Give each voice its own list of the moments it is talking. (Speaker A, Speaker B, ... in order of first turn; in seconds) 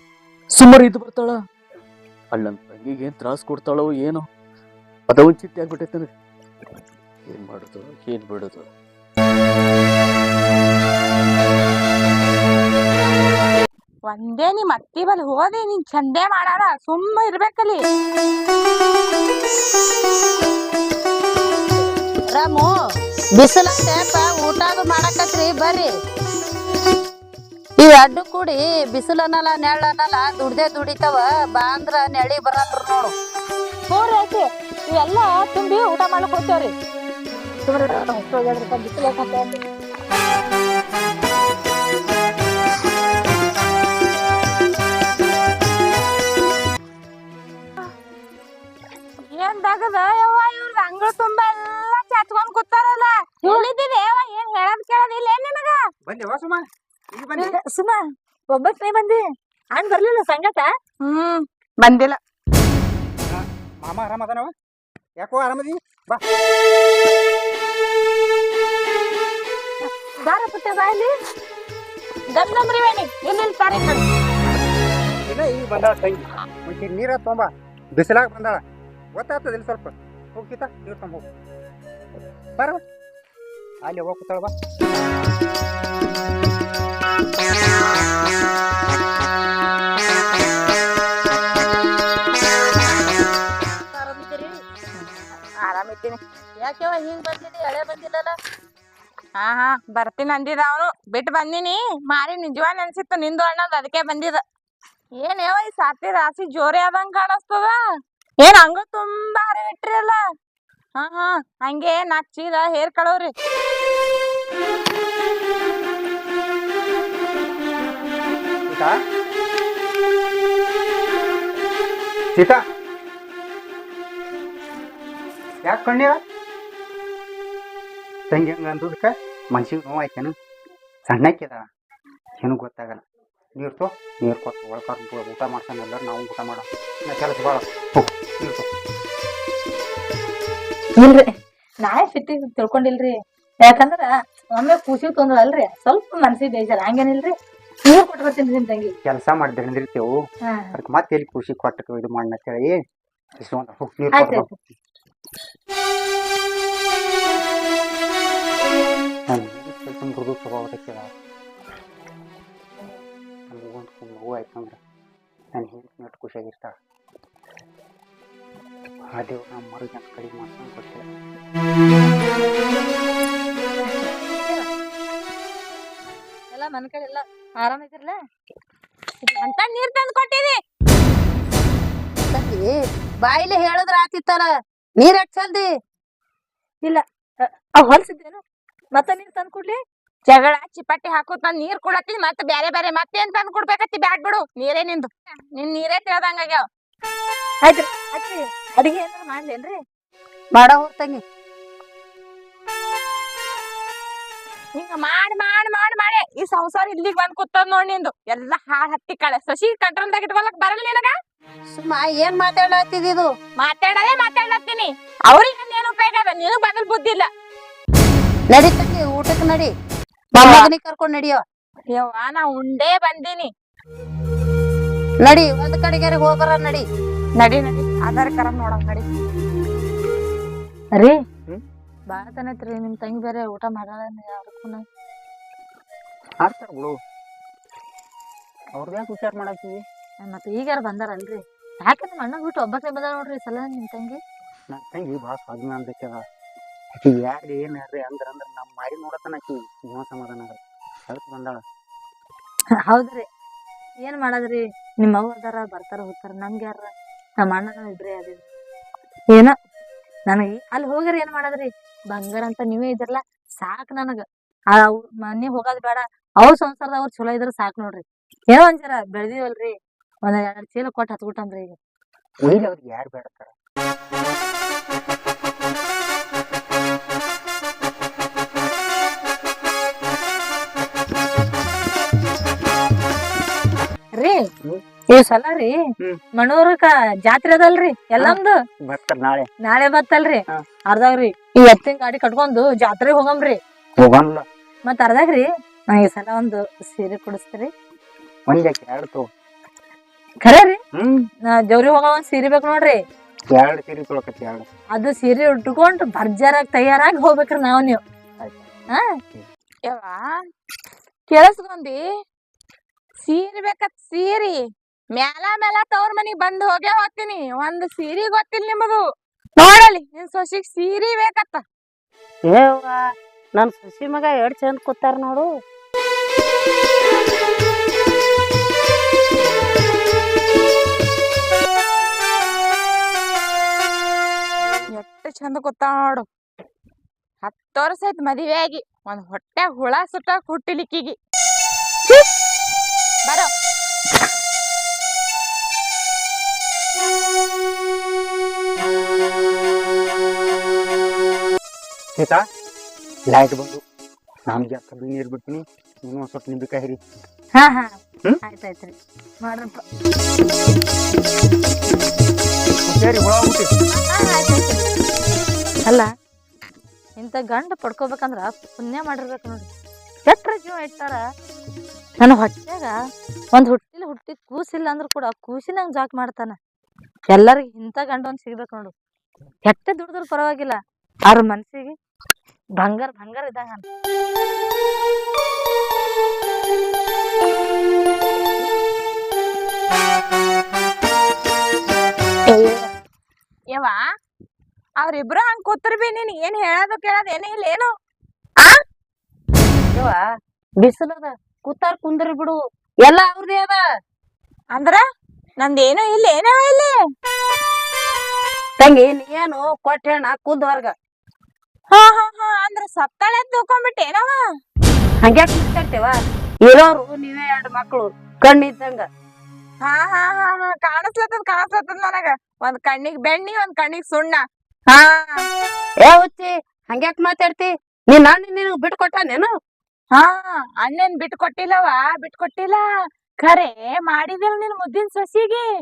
Speaker A: 0.5-1.4, 2.3-4.2, 5.1-6.1, 7.3-8.7
Speaker B: 14.1-17.8, 33.9-36.7, 37.7-39.5, 49.3-55.8, 61.0-62.2, 72.3-74.0, 94.1-94.4, 95.6-98.3, 99.4-104.4, 105.2-107.8, 108.4-110.2, 111.0-113.3, 179.3-180.6, 190.3-196.6, 204.8-211.1, 213.6-217.3, 220.4-220.7, 221.9-223.5, 227.4-229.1, 309.9-310.2, 311.3-312.0, 313.2-314.6, 315.1-319.0, 319.6-321.6, 334.9-336.2, 337.4-341.1, 392.5-392.9, 393.7-394.0, 395.0-397.9, 404.7-405.0, 405.6-406.9, 411.9-414.4, 419.8-425.4, 430.1-432.8, 433.4-435.6
Speaker C: 22.3-22.7, 23.4-25.9, 27.8-33.1, 182.3-182.7, 183.2-184.5, 185.0-185.7, 200.6-201.2, 211.7-213.3, 218.5-219.7, 220.3-221.4, 225.2-226.8, 322.5-323.0, 323.6-325.5, 399.9-400.2, 400.8-403.8, 408.8-410.9, 415.2-416.1, 416.7-419.1, 426.0-429.5
Speaker D: 56.1-57.5, 63.3-64.5, 65.2-66.2, 75.3-78.6, 79.1-81.2, 83.8-84.5, 118.7-118.9, 122.3-122.6, 125.6-126.2, 128.3-130.3, 131.1-131.7, 132.4-133.0, 133.6-138.7, 149.0-150.1, 150.7-152.8, 153.4-154.7, 159.3-161.1, 163.5-164.8, 165.5-166.7, 169.1-171.0, 236.4-236.9, 238.7-239.8, 244.7-246.2, 247.0-250.6, 251.1-251.6, 272.4-273.5, 288.2-289.5, 294.0-294.4, 298.5-299.2, 303.5-304.6, 352.1-352.4, 353.3-353.8, 354.5-357.0, 362.9-363.7
Speaker E: 57.4-59.2, 59.7-60.7, 70.3-71.0, 141.0-141.3, 141.8-143.1, 143.7-147.3, 147.9-148.9, 154.2-154.5, 174.0-174.7, 176.5-178.1, 186.8-188.4, 188.9-189.8, 197.6-199.8, 232.1-234.8, 240.2-244.2, 252.9-253.2, 254.0-256.9, 257.4-258.4, 260.3-269.7, 270.2-271.8, 285.1-285.7, 286.4-288.5, 289.6-293.6, 294.9-297.7, 300.4-300.8, 301.5-303.0, 304.9-308.0, 357.6-359.8, 363.9-364.8, 365.8-366.1, 367.2-369.7, 370.3-371.2, 372.2-372.9, 373.5-376.6, 377.3-378.9, 379.6-380.8, 381.3-381.9, 382.8-383.8